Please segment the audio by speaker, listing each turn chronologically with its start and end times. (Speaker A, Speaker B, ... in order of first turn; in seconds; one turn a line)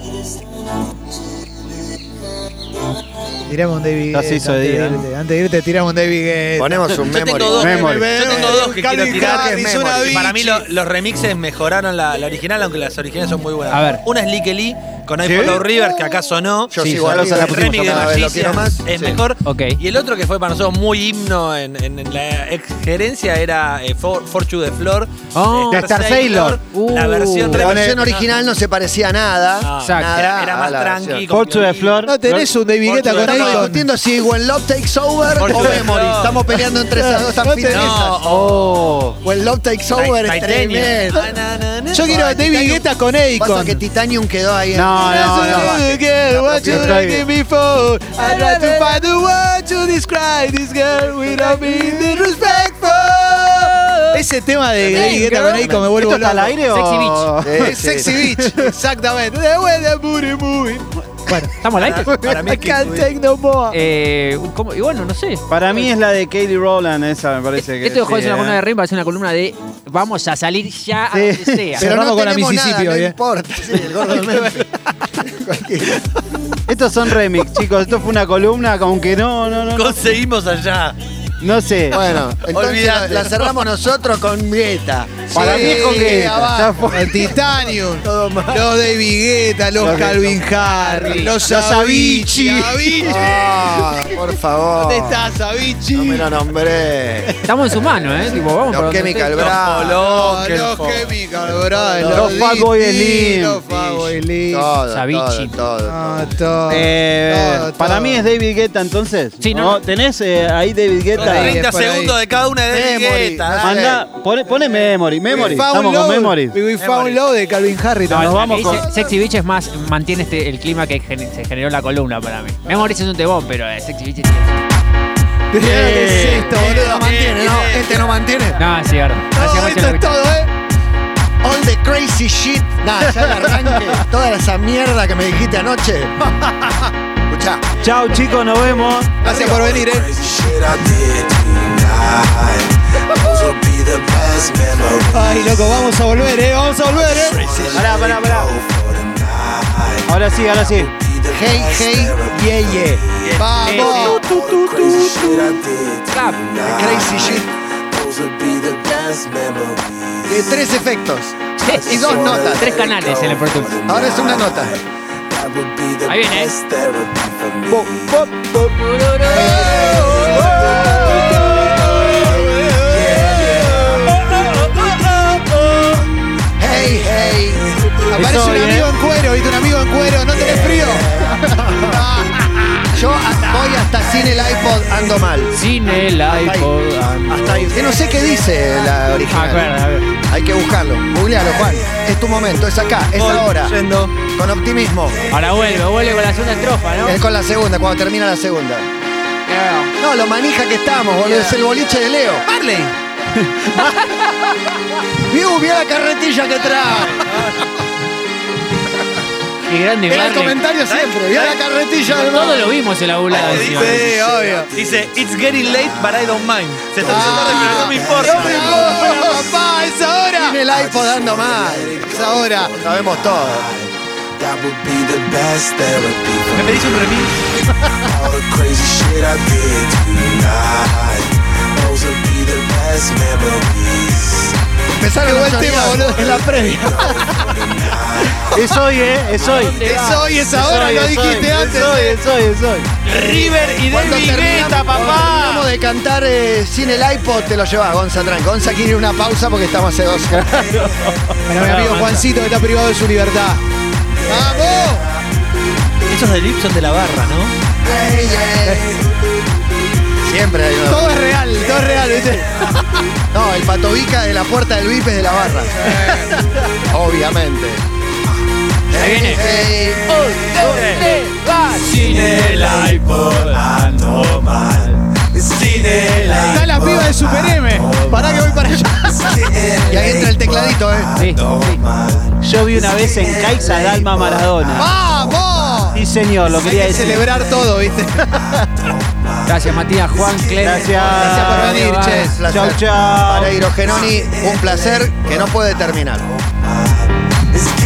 Speaker A: 3.5-7.1
Speaker B: 4.1-5.0
Speaker C: 6.6-10.3
Speaker D: 7.0-28.3
Speaker B: 7.6-8.2
Speaker A: 7.6-10.6
Speaker E: 13.7-14.0
Speaker B: 15.2-15.6
Speaker C: 16.7-19.2
Speaker B: 16.9-18.2
Speaker E: 19.4-19.8
Speaker E: 25.3-25.9
Speaker B: 25.7-26.6
Speaker E: 26.7-27.6
Speaker B: 27.5-28.0
Speaker C: 27.6-31.3
Speaker D: 29.6-32.1
Speaker E: 29.8-30.2
Speaker B: 31.3-32.5
Speaker A: 32.0-33.9
Speaker D: 32.8-33.6
Speaker C: 33.0-38.2
Speaker D: 35.3-36.4
Speaker A: 36.8-38.2
Speaker D: 37.7-38.7
Speaker B: 38.3-39.2
Speaker C: 39.2-41.2
Speaker D: 40.0-42.2
Speaker A: 41.9-43.8
Speaker C: 42.0-47.0
Speaker B: 44.7-45.8
Speaker A: 44.9-56.6
Speaker B: 46.7-47.3
Speaker E: 48.2-49.0
Speaker E: 53.8-54.2
Speaker E: 54.9-55.6
Speaker B: 55.3-57.8
Speaker C: 55.4-56.0
Speaker E: 56.7-57.4
Speaker C: 57.4-58.2
Speaker A: 57.6-61.5
Speaker B: 58.4-58.7
Speaker E: 61.6-62.1
Speaker D: 61.8-63.1
Speaker A: 62.1-63.8
Speaker E: 63.7-65.8
Speaker B: 65.5-68.6
Speaker E: 67.6-71.9
Speaker B: 71.1-71.6
Speaker A: 71.8-73.2
Speaker C: 71.8-76.0
Speaker B: 76.7-80.0
Speaker D: 79.8-81.0
Speaker B: 81.4-82.0
Speaker C: 81.9-86.9
Speaker D: 82.5-83.5
Speaker A: 85.3-94.2
Speaker B: 85.3-87.4
Speaker C: 88.0-88.7
Speaker B: 89.8-93.2
Speaker E: 90.9-91.2
Speaker C: 93.0-95.2
Speaker A: 94.8-96.3
Speaker C: 95.9-97.3
Speaker E: 97.4-99.5
Speaker C: 98.7-100.0
Speaker D: 99.3-101.1
Speaker A: 99.9-104.7
Speaker C: 101.7-102.4
Speaker B: 102.0-103.7
Speaker C: 104.5-106.3
Speaker E: 104.9-105.5
Speaker A: 105.9-108.2
Speaker B: 106.7-111.6
Speaker E: 109.4-109.8
Speaker D: 111.2-113.9
Speaker A: 111.2-112.2
Speaker C: 112.7-114.0
Speaker B: 113.6-116.6
Speaker A: 115.3-118.4
Speaker D: 116.8-117.2
Speaker B: 118.1-118.8
Speaker E: 118.1-124.7
Speaker A: 125.5-127.0
Speaker C: 125.6-128.6
Speaker B: 125.6-126.5
Speaker D: 126.6-128.0
Speaker E: 128.6-130.1
Speaker A: 129.3-130.5
Speaker C: 131.4-136.1
Speaker C: 137.3-137.6
Speaker B: 137.8-139.2
Speaker A: 139.2-140.9
Speaker C: 139.2-139.8
Speaker A: 143.1-143.6
Speaker A: 144.9-147.6
Speaker C: 147.0-148.0
Speaker B: 147.7-148.6
Speaker B: 150.1-150.9
Speaker A: 151.3-152.3
Speaker C: 151.3-153.2
Speaker A: 153.3-154.3
Speaker B: 153.6-154.1
Speaker E: 153.8-156.6
Speaker C: 156.6-157.5
Speaker C: 160.3-163.2
Speaker E: 161.6-163.9
Speaker C: 163.8-164.8
Speaker E: 166.0-166.6
Speaker C: 167.7-168.1
Speaker B: 167.9-168.6
Speaker E: 168.8-170.1
Speaker C: 169.2-170.6
Speaker A: 169.3-173.8
Speaker B: 170.6-171.5
Speaker C: 172.8-174.2
Speaker C: 176.6-177.7
Speaker B: 178.1-178.9
Speaker A: 178.1-182.5
Speaker C: 180.3-182.1
Speaker C: 182.9-186.7
Speaker A: 183.5-183.9
Speaker E: 185.5-187.8
Speaker C: 187.3-195.2
Speaker E: 189.3-190.1
Speaker D: 193.2-194.2
Speaker E: 195.3-197.2
Speaker C: 197.0-198.9
Speaker E: 199.5-199.9
Speaker C: 200.0-202.4
Speaker A: 202.5-202.9
Speaker B: 203.5-204.0
Speaker C: 205.2-207.3
Speaker D: 207.2-207.6
Speaker E: 209.7-210.6
Speaker C: 210.1-212.7
Speaker D: 210.9-211.5
Speaker E: 212.1-214.1
Speaker D: 213.3-214.2
Speaker A: 213.9-214.7
Speaker C: 214.2-214.6
Speaker D: 214.7-219.5
Speaker A: 217.0-220.6
Speaker C: 217.1-219.1
Speaker C: 220.3-223.8
Speaker A: 221.9-222.8
Speaker D: 226.5-227.4
Speaker A: 227.9-228.3
Speaker C: 234.9-236.6
Speaker A: 235.2-238.8
Speaker B: 238.5-242.9
Speaker E: 239.4-240.3
Speaker A: 239.8-242.2
Speaker D: 243.1-245.5
Speaker C: 243.1-250.8
Speaker B: 250.2-252.2
Speaker A: 251.5-253.6
Speaker A: 254.3-255.1
Speaker D: 256.1-257.6
Speaker C: 257.8-259.0
Speaker A: 258.6-258.9
Speaker C: 260.2-261.2
Speaker A: 260.9-263.0
Speaker C: 263.3-266.3
Speaker A: 265.8-266.5
Speaker C: 266.9-267.8
Speaker C: 268.9-270.1
Speaker E: 268.9-272.8
Speaker D: 270.5-271.2
Speaker D: 271.7-276.8
Speaker A: 276.4-280.7
Speaker C: 279.8-282.3
Speaker E: 281.1-281.8
Speaker B: 282.4-284.9
Speaker C: 283.7-284.7
Speaker A: 284.8-286.0
Speaker B: 285.9-287.4
Speaker A: 286.6-288.7
Speaker E: 289.4-292.4
Speaker B: 290.6-291.9
Speaker A: 291.1-292.5
Speaker C: 292.0-296.3
Speaker B: 292.5-293.9